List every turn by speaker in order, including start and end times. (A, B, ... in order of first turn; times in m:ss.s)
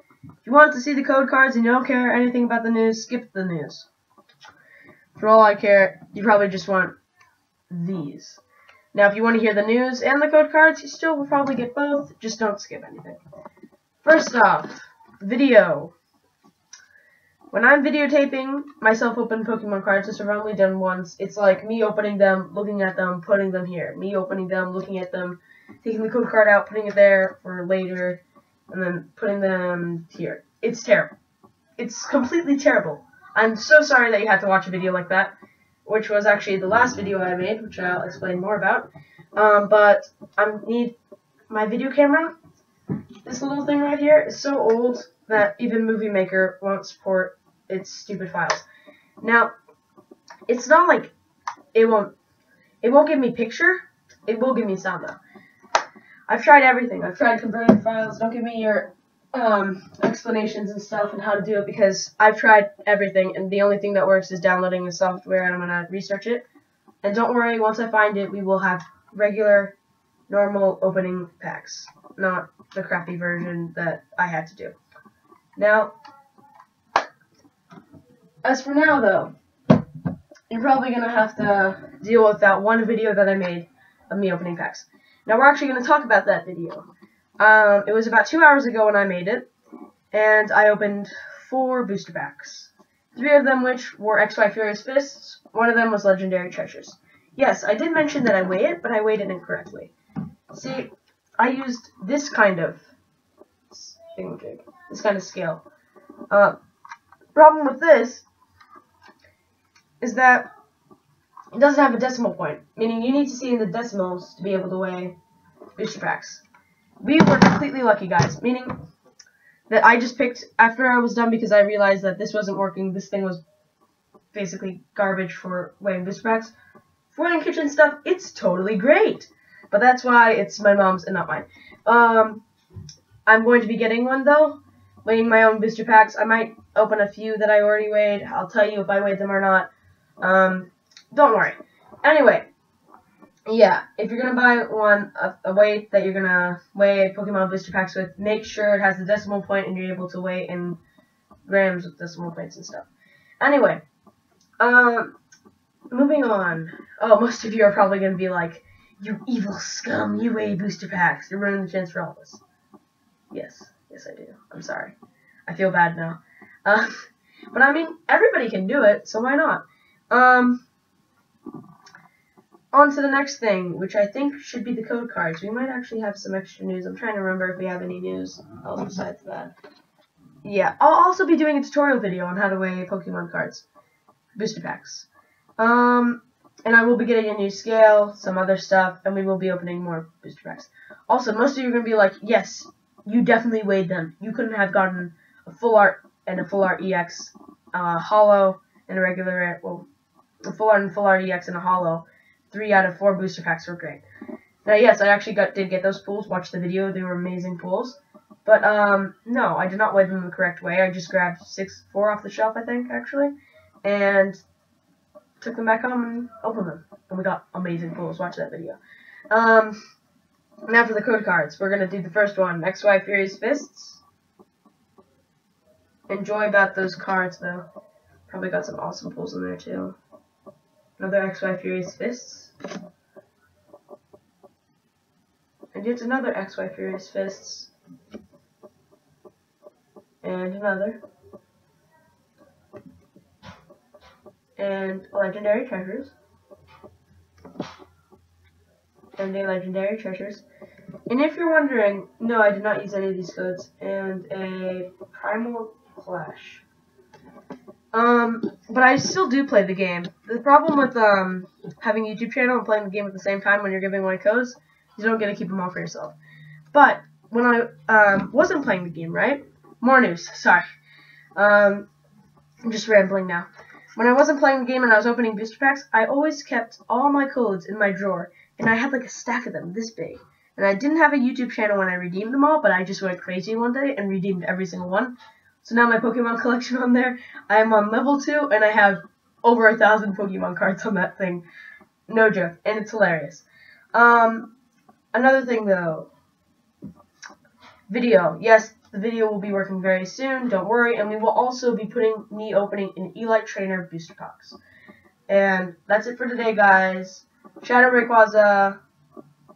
0:00.4-0:03.9 A
0:05.2-0:07.0 A
0:07.7-0:08.4 A
0:08.9-0:13.2 A
0:14.0-0:15.9 A
0:17.5-0:31.1 A
0:31.8-0:35.3 A
0:35.8-0:41.0 A
0:41.5-0:42.4 A
0:43.2-0:48.6 A
0:49.2-0:49.5 A
0:50.5-0:51.1 A
0:51.7-0:52.1 A
0:52.8-0:55.2 A
0:56.3-1:06.4 A
1:07.0-1:09.8 A
1:10.3-1:14.8 A
1:15.6-1:15.9 A
1:18.4-1:19.3 A
1:20.5-1:26.9 A
1:27.4-1:29.5 A
1:30.1-1:39.9 A
1:40.5-1:42.8 A
1:43.7-1:45.6 A
1:46.3-1:46.6 A
1:47.4-1:48.2 A
1:50.0-1:50.5 A
1:51.5-1:55.2 A
1:55.8-1:56.4 A
1:57.0-1:58.8 A
1:59.7-2:03.4 A
2:04.3-2:06.5 A
2:07.1-2:12.4 A
2:13.3-2:19.7 A
2:20.2-2:22.5 A
2:23.5-2:30.8 A
2:31.5-2:32.9 A
2:33.4-2:33.8 A
2:34.6-2:35.2 A
2:35.9-2:42.4 A
2:43.3-2:45.0 A
2:45.5-2:50.6 A
2:52.7-2:59.5 A
3:00.4-3:03.7 A
3:04.4-3:05.1 A
3:05.6-3:19.9 A
3:20.4-3:24.0 A
3:24.6-3:34.4 A
3:35.4-3:38.8 A
3:39.3-3:39.8 A
3:40.7-3:44.0 A
3:46.1-3:47.7 A
3:48.3-3:50.0 A
3:51.0-3:52.5 A
3:55.7-3:57.7 A
4:00.2-4:01.0 A
4:04.6-4:06.1 A
4:09.2-4:10.4 A
4:11.1-4:16.6 A
4:17.9-4:26.2 A
4:26.7-4:30.6 A
4:31.4-4:31.9 A
4:32.6-4:51.4 A
4:52.1-4:54.6 A
4:55.1-4:56.1 A
4:57.9-5:04.6 A
5:05.3-5:08.8 A